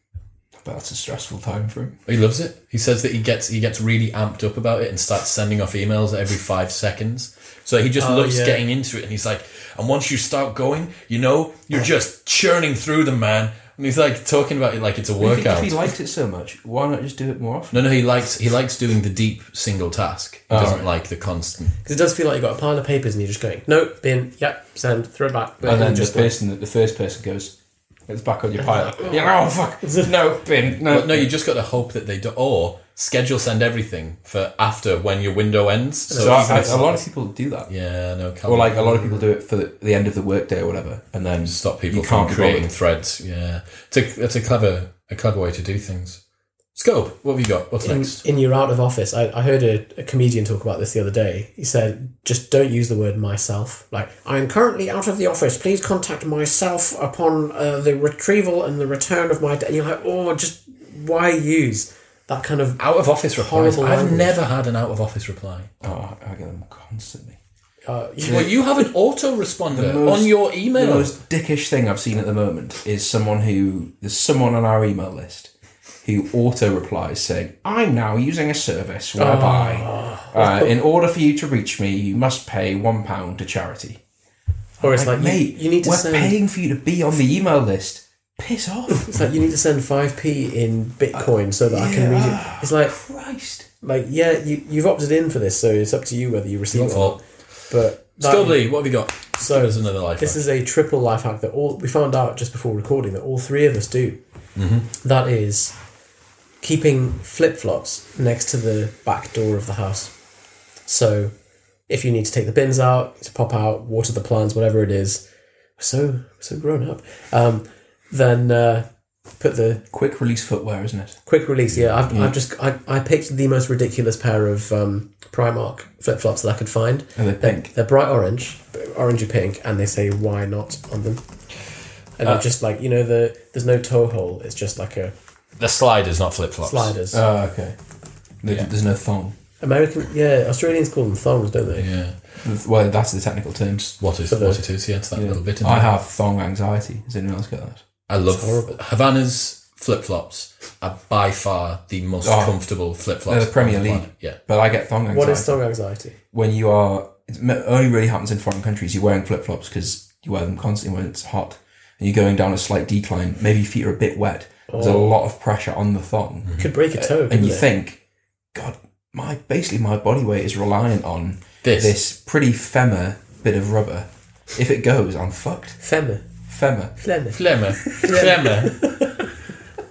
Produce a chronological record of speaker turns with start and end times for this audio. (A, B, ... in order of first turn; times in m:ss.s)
0:00.6-0:02.0 A
0:02.1-0:15.9 B
0:08.0-0:08.6 C
0:15.2-0:17.8 A
0:17.7-0:21.7 B
0:20.5-0:20.8 A
0:21.8-0:26.3 C
0:25.6-0:27.6 A
0:28.1-0:31.3 A
0:28.6-0:29.3 C
0:29.8-0:30.1 C
0:30.7-0:36.9 B
0:36.1-0:37.0 C
0:36.2-0:37.7 A
0:37.7-0:39.1 B
0:38.4-0:42.7 A
0:41.4-0:46.2 B
0:46.7-0:48.2 B
0:47.8-1:04.4 C
1:02.8-1:05.7 B
1:05.8-1:07.4 A
1:07.9-1:08.6 C
1:08.2-1:11.1 B
1:09.7-1:15.5 A
1:16.0-1:24.0 A
1:19.2-1:20.7 C
1:24.8-1:29.4 A
1:24.8-1:26.4 C
1:28.9-1:33.0 C
1:31.1-1:33.7 A
1:33.8-1:38.6 C
1:36.7-1:37.2 B
1:38.2-1:40.4 B
1:39.4-1:44.2 C
1:44.6-1:44.9 B
1:45.0-1:45.7 C
1:46.6-1:50.1 C
1:50.9-1:51.3 C
1:51.9-1:55.2 C
1:55.8-1:58.8 C
1:59.4-1:59.8 C
1:59.9-2:01.2 A
2:01.3-2:11.2 C
2:02.1-2:02.4 A
2:07.2-2:07.7 A
2:12.2-2:15.1 C
2:15.6-2:16.9 B
2:16.6-2:17.2 C
2:17.1-2:17.8 A
2:18.4-2:19.3 A
2:19.6-2:21.9 C
2:21.8-2:22.2 B
2:22.4-2:23.8 A
2:23.8-2:25.9 B
2:24.3-2:24.6 C
2:25.1-2:27.8 A
2:28.1-2:34.4 B
2:28.3-2:28.8 C
2:32.2-2:32.6 A
2:33.3-2:35.6 A
2:35.1-2:36.1 C
2:36.3-2:48.0 A
2:44.7-2:45.1 C
2:46.6-2:47.6 C
2:48.5-2:55.8 A
2:51.6-2:51.9 B
2:55.8-2:56.2 C
2:56.5-2:57.0 A
2:57.0-2:59.3 C
2:57.3-2:58.8 B